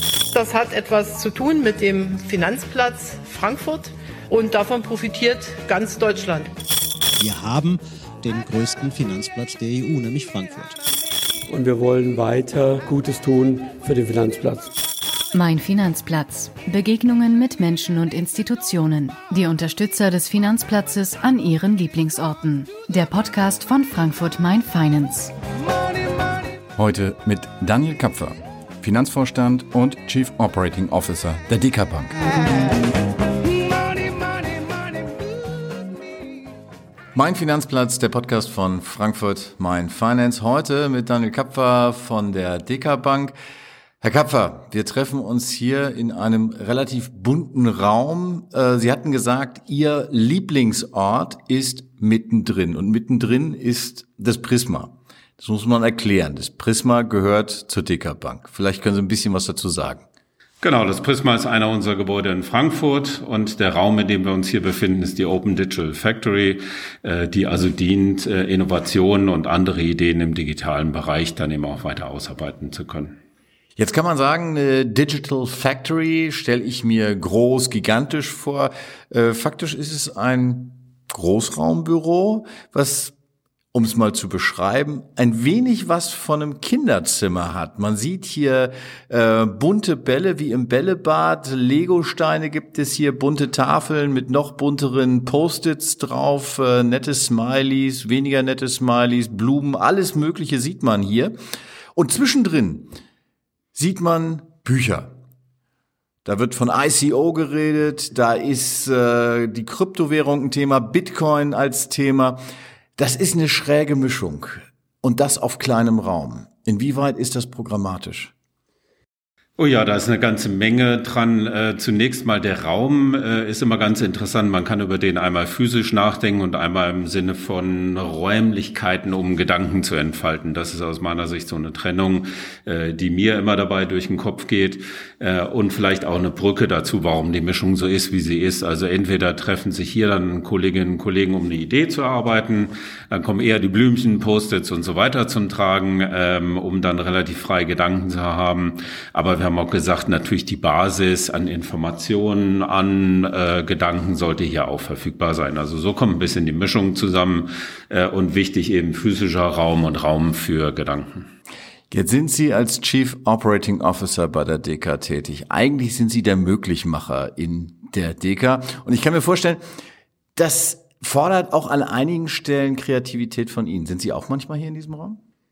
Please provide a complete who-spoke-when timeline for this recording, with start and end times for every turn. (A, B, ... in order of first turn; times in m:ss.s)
0:00.3-0:06.5 A
0:07.2-0:10.8 B
0:11.5-0:14.7 C
0:15.3-0:25.3 D
0:26.8-0:32.7 E
0:37.1-0:43.4 E
0:44.0-1:00.0 E
1:00.6-1:13.2 F
1:13.8-1:23.1 E
1:23.7-1:41.4 E
1:42.0-1:42.9 E
1:43.8-1:45.1 E
1:46.2-1:52.4 E
1:53.0-1:58.3 E
1:59.6-2:41.3 F
2:41.9-2:49.6 E
2:50.4-2:55.2 E